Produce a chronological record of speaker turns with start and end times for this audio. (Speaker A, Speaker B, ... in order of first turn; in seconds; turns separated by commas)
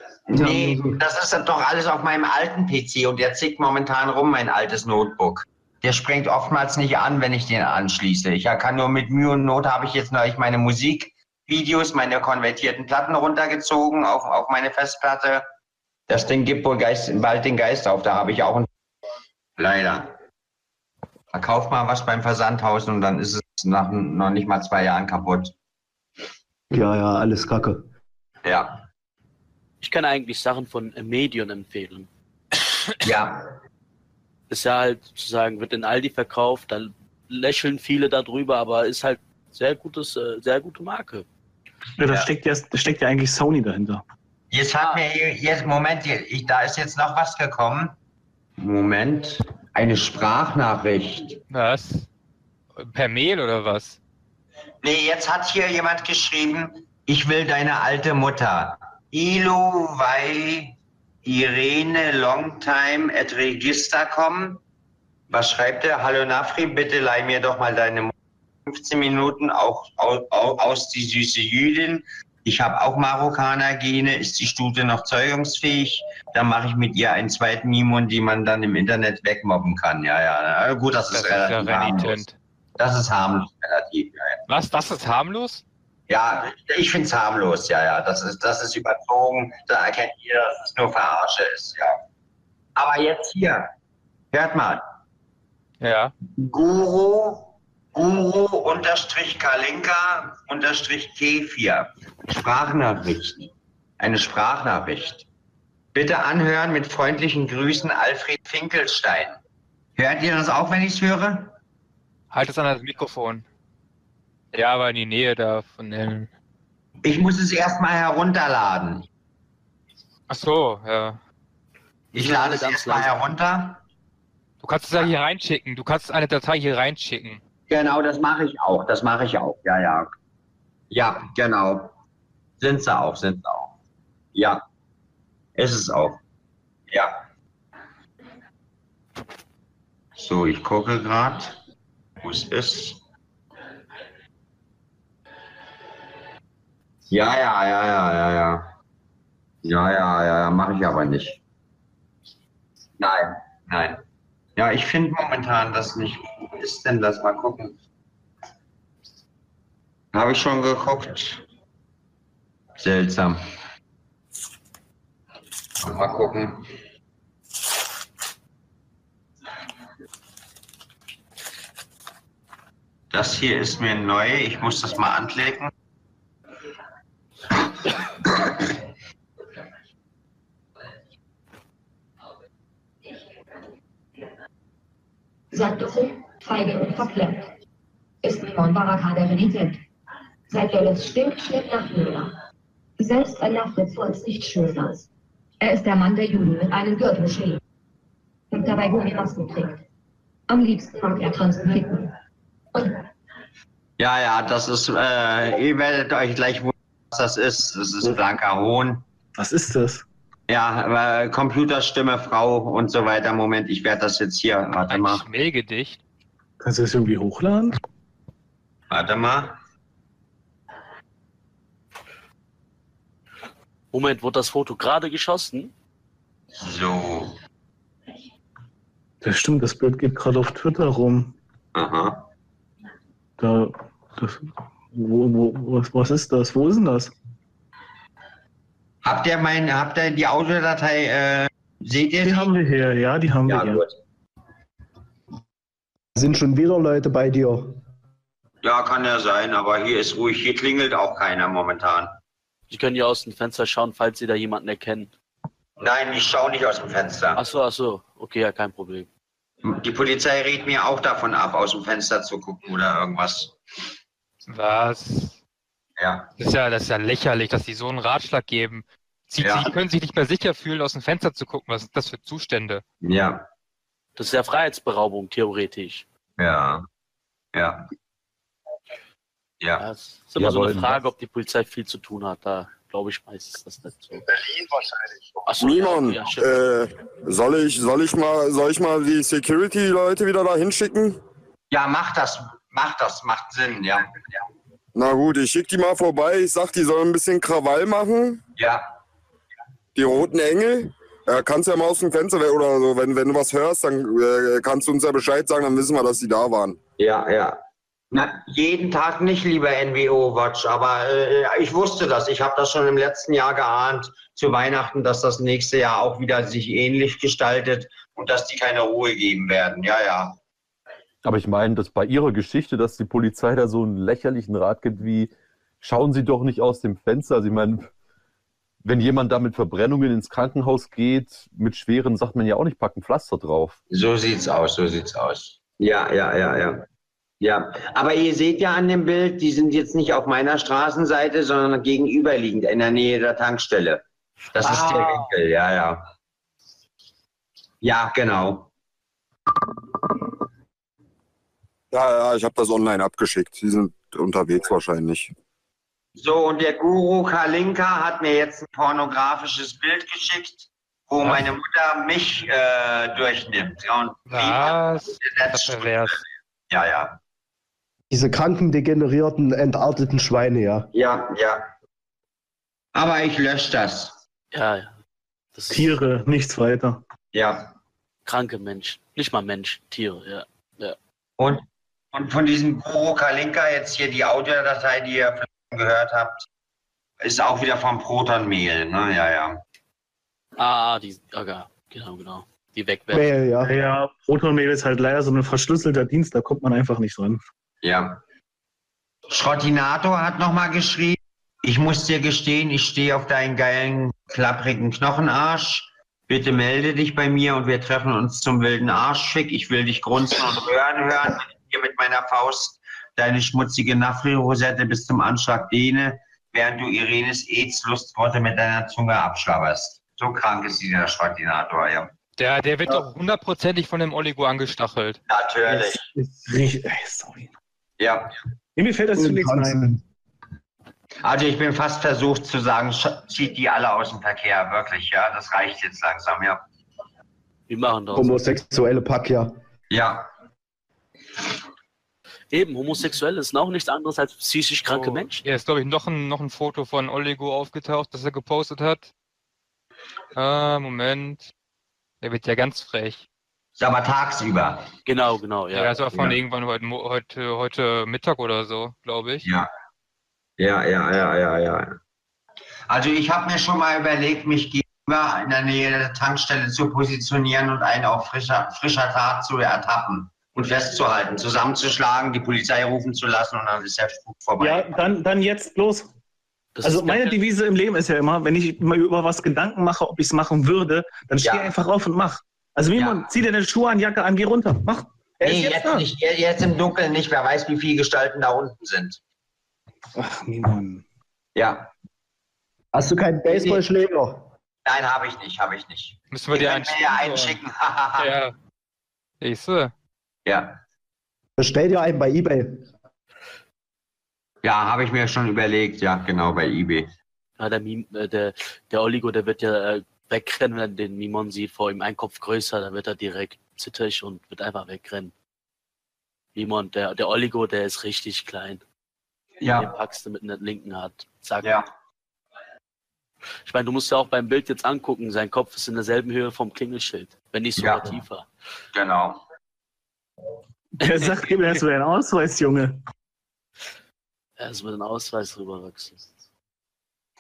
Speaker A: 0.3-15.5, Speaker B: 0.3-1.0, Speaker A: 16.1-18.7, Speaker A: 19.6-20.1, Speaker A: 21.3-25.5, Speaker B: 26.7-27.9, Speaker A: 28.4-28.9, Speaker C: 29.8-32.1, Speaker A: 33.0-33.6, Speaker C: 34.5-41.3, Speaker D: 42.0-44.0, Speaker A: 44.5-48.0, Speaker A: 48.6-51.4, Speaker E: 51.5-52.1, Speaker E: 52.8-54.0, Speaker A: 54.8-64.6, Speaker A: 65.3-68.1, Speaker A: 68.7-82.2, Speaker E: 81.1-82.4, Speaker A: 82.8-84.4, Speaker E: 84.5-85.6, Speaker A: 86.1-92.0, Speaker A: 92.8-93.7, Speaker A: 94.3-94.8, Speaker E: 95.8-96.1, Speaker A: 96.4-105.3, Speaker A: 105.9-109.4, Speaker A: 110.0-111.5, Speaker E: 112.3-113.5, Speaker E: 114.5-116.3, Speaker A: 117.0-119.1, Speaker E: 120.3-121.2, Speaker C: 122.1-123.1, Speaker A: 122.1-123.8, Speaker E: 124.6-127.4, Speaker A: 127.7-130.1, Speaker A: 130.9-131.9, Speaker A: 132.6-133.8, Speaker A: 134.3-134.6, Speaker A: 135.6-136.2, Speaker A: 136.9-137.2, Speaker A: 140.2-141.6, Speaker A: 142.2-143.0, Speaker A: 147.1-148.7, Speaker A: 149.6-151.4, Speaker A: 153.0-154.0, Speaker A: 154.6-157.8, Speaker A: 160.1-161.4, Speaker A: 162.8-163.4, Speaker A: 165.8-166.7, Speaker A: 173.1-175.7, Speaker F: 185.5-187.5, Speaker F: 188.2-189.8, Speaker F: 190.5-192.4, Speaker F: 193.0-195.1, Speaker F: 195.6-197.6, Speaker F: 198.5-199.8, Speaker F: 200.5-202.2, Speaker F: 202.7-203.0, Speaker A: 204.0-209.1, Speaker D: 209.4-210.1, Speaker A: 210.5-215.2, Speaker E: 214.9-216.0, Speaker D: 216.6-217.8, Speaker A: 218.9-219.6, Speaker C: 223.9-225.7, Speaker A: 226.6-227.3, Speaker D: 229.2-231.4, Speaker A: 231.8-232.3, Speaker D: 233.4-237.1, Speaker A: 239.0-242.5, Speaker D: 242.2-243.8, Speaker A: 243.5-244.0, Speaker B: 246.2-247.8, Speaker A: 248.6-252.1, Speaker C: 252.7-255.1, Speaker A: 255.8-257.4, Speaker C: 257.4-259.1, Speaker A: 259.6-263.6, Speaker E: 264.5-265.4, Speaker A: 266.0-266.3, Speaker E: 266.4-272.8, Speaker A: 269.4-269.7, Speaker A: 273.0-273.5, Speaker C: 274.2-276.1, Speaker A: 276.4-276.9, Speaker A: 277.5-277.9, Speaker C: 279.8-284.3, Speaker G: 280.4-281.0, Speaker C: 285.5-286.7, Speaker H: 285.6-291.2, Speaker A: 291.7-294.4, Speaker H: 294.9-298.4, Speaker A: 298.6-298.9, Speaker H: 299.9-306.8, Speaker A: 307.0-307.6, Speaker A: 308.1-320.4, Speaker G: 321.2-327.9, Speaker G: 328.8-333.8, Speaker A: 333.9-336.9, Speaker A: 337.4-346.1, Speaker C: 344.6-345.2, Speaker A: 347.8-348.7, Speaker H: 351.9-355.3, Speaker A: 356.2-367.2, Speaker E: 361.2-361.5, Speaker E: 364.3-366.2, Speaker B: 368.1-370.9, Speaker A: 370.9-371.7, Speaker A: 372.9-374.2, Speaker C: 374.5-374.9, Speaker C: 375.6-376.0, Speaker D: 375.7-377.0, Speaker A: 377.3-377.7, Speaker C: 378.3-381.0, Speaker A: 381.4-386.5, Speaker A: 387.2-389.6, Speaker C: 390.6-393.3, Speaker B: 393.1-393.7, Speaker D: 393.6-397.4, Speaker A: 397.8-398.2, Speaker A: 399.3-422.1, Speaker E: 422.4-425.2, Speaker A: 425.3-426.0, Speaker D: 425.7-427.5, Speaker A: 428.0-428.3, Speaker D: 428.8-429.8, Speaker B: 429.2-430.0, Speaker A: 431.2-436.6, Speaker C: 437.7-438.5, Speaker B: 438.1-439.6, Speaker A: 439.9-440.3, Speaker C: 442.5-445.4, Speaker E: 444.9-449.1, Speaker E: 450.4-451.5, Speaker E: 452.2-453.2, Speaker A: 453.8-454.9, Speaker C: 455.1-456.0, Speaker E: 455.7-459.5, Speaker A: 459.4-459.7, Speaker A: 460.6-462.0, Speaker A: 462.9-475.0, Speaker D: 474.6-476.1, Speaker C: 476.8-477.4, Speaker D: 476.8-486.1, Speaker A: 481.4-481.7, Speaker A: 482.9-483.2, Speaker A: 485.4-489.2, Speaker D: 490.2-491.0, Speaker A: 491.6-491.9, Speaker B: 492.9-494.5, Speaker A: 493.5-493.8, Speaker A: 494.9-498.4, Speaker E: 496.3-497.6, Speaker E: 498.2-498.5, Speaker E: 499.4-499.9, Speaker A: 500.5-500.8, Speaker B: 501.6-502.9, Speaker A: 504.6-507.1, Speaker C: 507.6-515.3, Speaker C: 516.5-518.8, Speaker A: 519.6-519.9, Speaker C: 519.8-521.8, Speaker A: 521.6-521.9, Speaker C: 523.6-528.5, Speaker A: 527.8-528.2, Speaker A: 528.9-529.4, Speaker D: 531.0-533.0, Speaker C: 534.6-536.3